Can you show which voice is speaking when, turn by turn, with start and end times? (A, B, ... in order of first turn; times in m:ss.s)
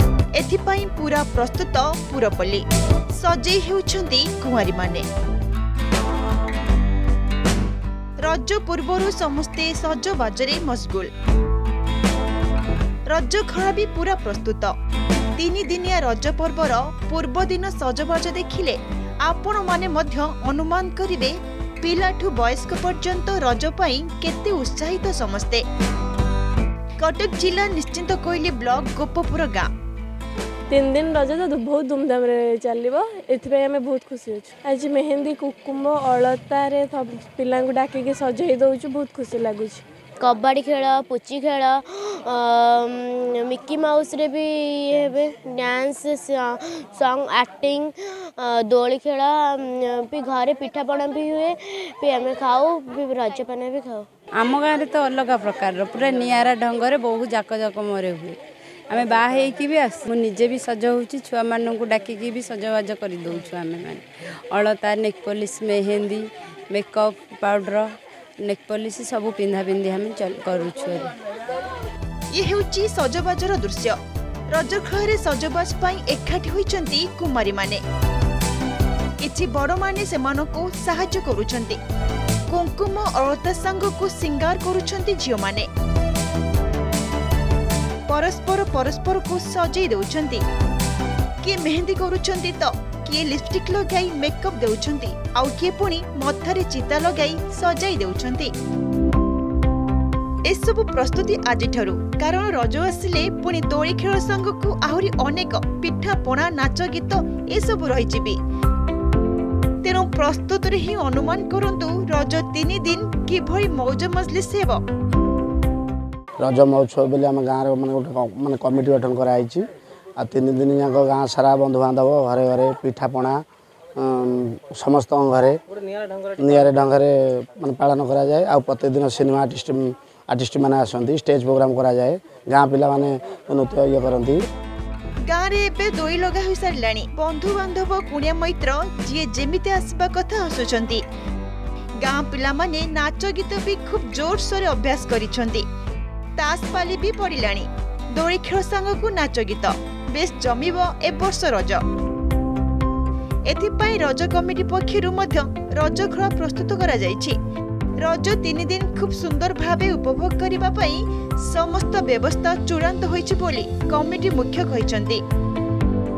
0:00.4-0:02.6 A
0:03.1-0:05.1 A
0:08.2-0:11.1 A
0:13.1-0:14.7 A
0:15.4-0:25.6 A
0:27.0-0:29.7 A
0:30.7-0:39.8 B
0:40.2-0:54.1 C
0:54.4-0:58.4 D
0:58.9-1:11.1 D
1:12.3-1:14.0 A
1:14.5-1:17.8 A
1:19.2-1:21.8 A
1:22.5-1:25.7 A
1:28.1-1:30.4 A
1:31.4-1:38.5 A
1:40.5-1:48.4 A
1:49.8-1:54.8 A
1:56.4-1:59.7 E
2:00.2-2:03.4 E
2:04.0-2:05.6 E
2:06.2-2:14.4 E
2:15.3-2:21.0 A
2:22.0-2:25.6 A
2:26.4-2:31.8 A
2:33.5-2:37.4 A
2:38.0-2:45.2 A